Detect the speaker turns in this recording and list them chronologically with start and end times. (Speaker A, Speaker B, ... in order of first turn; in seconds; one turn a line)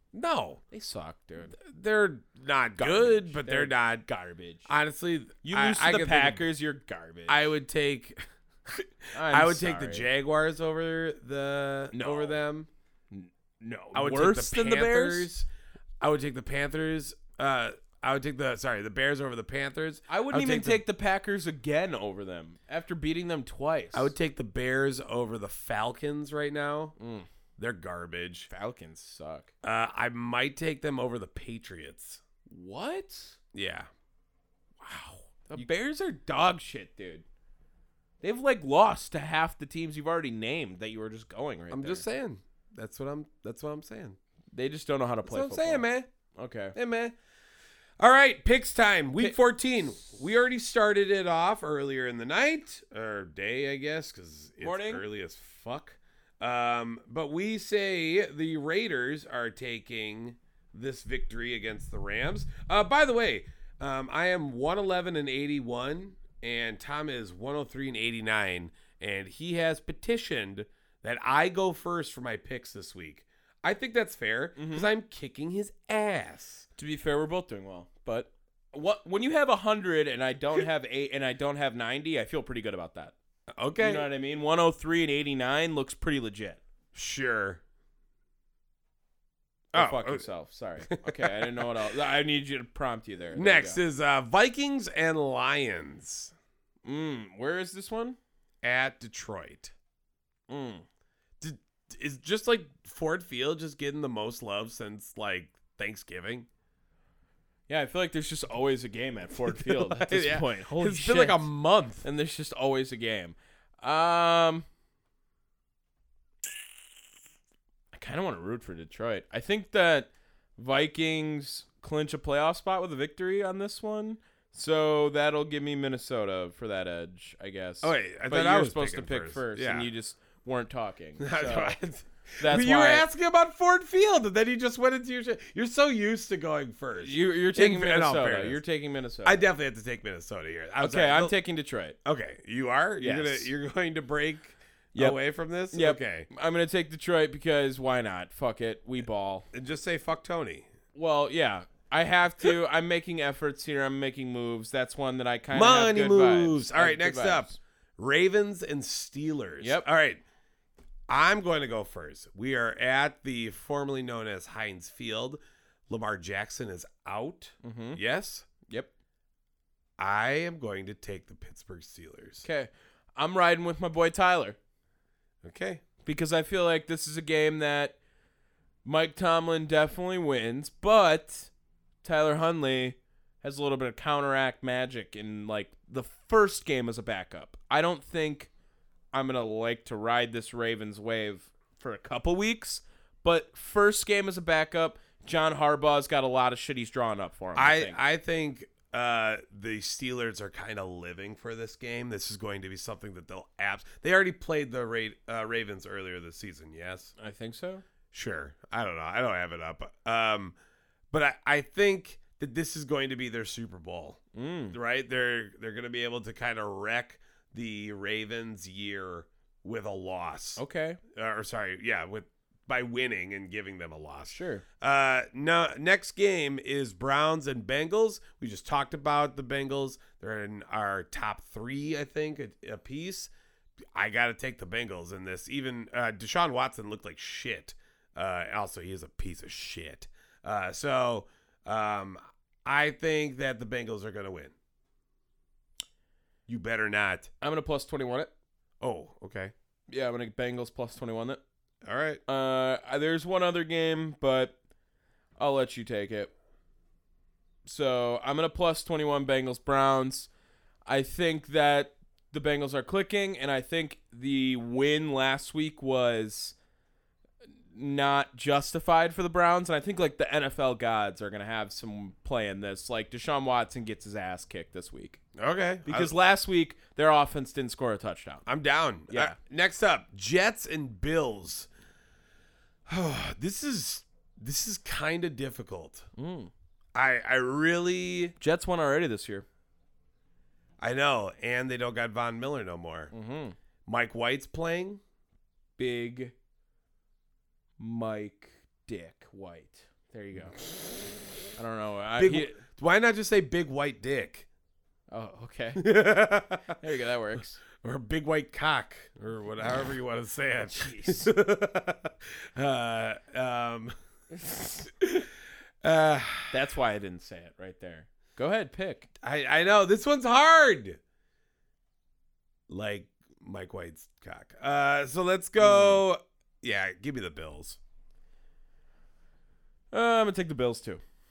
Speaker A: 0.1-0.6
Speaker B: 0.7-1.6
Speaker A: 1.5-4.0
Speaker B: 2.8-4.7
Speaker A: 4.7-6.4
Speaker B: 5.4-7.5
Speaker A: 7.3-12.7
Speaker B: 9.1-10.1
Speaker B: 11.9-12.3
Speaker B: 13.1-15.3
Speaker A: 13.9-15.5
Speaker A: 16.0-20.8
Speaker B: 20.1-24.1
Speaker A: 23.9-26.9
Speaker B: 27.0-27.3
Speaker A: 27.6-28.5
Speaker B: 28.5-29.5
Speaker A: 29.6-32.2
Speaker B: 32.5-33.4
Speaker A: 33.5-33.9
Speaker B: 34.8-37.2
Speaker B: 38.2-42.0
Speaker A: 41.7-44.2
Speaker B: 44.5-45.9
Speaker A: 45.2-46.1
Speaker B: 46.4-46.7
Speaker A: 46.7-47.1
Speaker A: 48.0-76.7
Speaker B: 54.6-55.0
Speaker B: 74.5-74.9
Speaker B: 76.8-83.1
Speaker A: 83.5-84.1
Speaker B: 83.8-86.6
Speaker A: 86.9-87.6
Speaker B: 89.7-93.8
Speaker A: 89.7-90.2
Speaker A: 90.9-91.7
Speaker A: 93.3-96.3
Speaker B: 96.8-98.2
Speaker A: 98.6-99.7
Speaker B: 100.5-100.8
Speaker A: 101.4-106.5
Speaker B: 107.7-111.5
Speaker A: 109.5-112.0
Speaker B: 112.0-114.6
Speaker B: 117.9-131.8
Speaker A: 127.8-129.9
Speaker A: 131.2-138.6
Speaker B: 132.4-133.0
Speaker B: 137.0-139.4
Speaker A: 139.2-141.3
Speaker B: 140.8-142.0
Speaker A: 142.0-146.3
Speaker B: 143.0-143.5
Speaker B: 145.7-149.4
Speaker A: 149.5-150.7
Speaker B: 150.9-157.6
Speaker A: 155.5-160.2
Speaker B: 159.6-159.9
Speaker A: 161.1-168.5
Speaker B: 167.6-168.0
Speaker B: 168.7-168.9
Speaker A: 170.0-172.4
Speaker B: 172.4-174.6
Speaker A: 175.4-175.8
Speaker B: 176.0-178.0
Speaker B: 178.8-181.5
Speaker B: 182.0-188.5
Speaker B: 189.1-198.0
Speaker A: 197.5-207.1
Speaker B: 207.2-207.8
Speaker A: 208.1-210.5
Speaker A: 211.1-214.2
Speaker B: 214.3-214.8
Speaker A: 214.7-220.6
Speaker B: 220.6-221.0
Speaker A: 221.1-233.3
Speaker B: 224.3-224.6
Speaker A: 233.9-244.5
Speaker A: 246.5-247.3
Speaker B: 247.4-248.3
Speaker A: 248.8-249.5
Speaker B: 249.9-251.4
Speaker A: 251.8-252.2
Speaker B: 252.3-254.6
Speaker B: 255.4-256.3
Speaker B: 257.6-260.3
Speaker B: 260.9-266.5
Speaker B: 267.7-275.2
Speaker A: 275.4-276.1
Speaker B: 275.9-278.4
Speaker A: 278.4-281.7
Speaker B: 279.1-279.4
Speaker A: 282.9-286.1
Speaker B: 286.1-286.5
Speaker A: 286.9-288.3
Speaker B: 288.4-289.4
Speaker A: 290.8-293.1
Speaker B: 293.1-293.6
Speaker A: 293.9-295.0
Speaker B: 295.8-296.3
Speaker B: 297.8-300.6
Speaker B: 301.6-302.6
Speaker A: 302.2-304.5
Speaker B: 305.1-305.8
Speaker A: 305.8-306.8
Speaker B: 306.8-307.6
Speaker A: 307.8-315.3
Speaker B: 310.7-311.3
Speaker A: 315.8-316.5
Speaker B: 316.5-319.1
Speaker A: 319.2-321.0
Speaker A: 322.7-327.8
Speaker B: 325.6-326.0
Speaker B: 329.9-331.0